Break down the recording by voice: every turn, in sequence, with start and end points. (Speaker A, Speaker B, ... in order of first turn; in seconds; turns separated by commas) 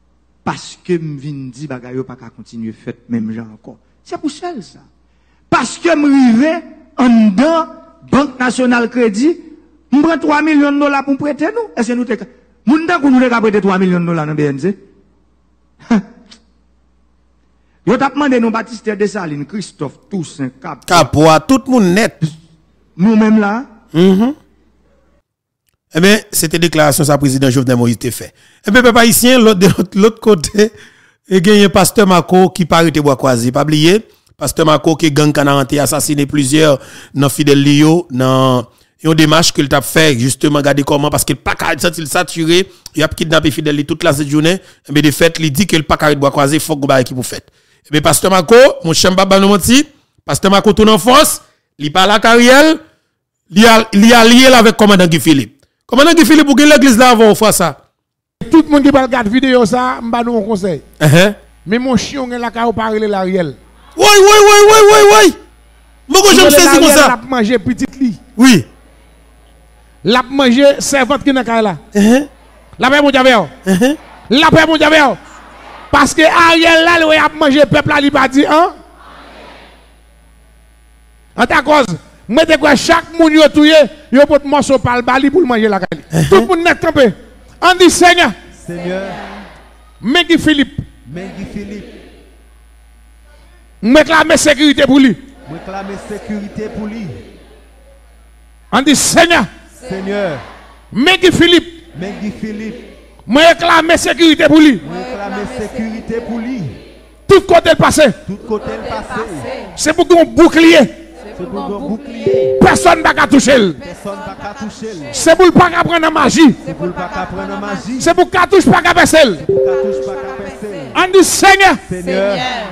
Speaker A: 0.5-4.8, Speaker A: 5.5-14.8, Speaker A: 17.9-21.1, Speaker B: 20.9-22.2, Speaker A: 23.0-23.7, Speaker B: 23.9-24.4, Speaker B: 25.9-30.7, Speaker B: 31.3-52.8, Speaker B: 53.5-57.8, Speaker C: 58.4-60.8, Speaker B: 61.0-61.4, Speaker C: 61.6-63.6, Speaker B: 64.0-65.4, Speaker B: 66.1-67.2, Speaker C: 66.3-68.2, Speaker B: 68.4-68.7, Speaker C: 70.0-71.8, Speaker B: 71.9-72.3, Speaker C: 72.8-73.5, Speaker B: 73.7-74.0, Speaker C: 74.3-75.2, Speaker C: 75.9-78.8, Speaker C: 81.4-88.4, Speaker B: 86.1-86.5, Speaker D: 88.5-89.5, Speaker C: 90.0-90.9, Speaker D: 91.1-92.0, Speaker C: 93.8-95.2, Speaker D: 95.5-97.3, Speaker C: 98.7-99.5, Speaker D: 99.8-100.5, Speaker C: 100.9-101.9, Speaker D: 101.9-102.9, Speaker C: 103.3-104.8, Speaker D: 104.8-106.8, Speaker C: 107.3-108.2, Speaker D: 108.3-109.6, Speaker C: 109.8-111.0, Speaker D: 111.3-112.6, Speaker C: 112.6-113.8, Speaker D: 113.8-115.1, Speaker C: 115.1-116.6, Speaker D: 116.6-118.2, Speaker C: 118.0-119.4, Speaker D: 119.5-121.0, Speaker C: 120.9-121.8, Speaker D: 121.9-122.5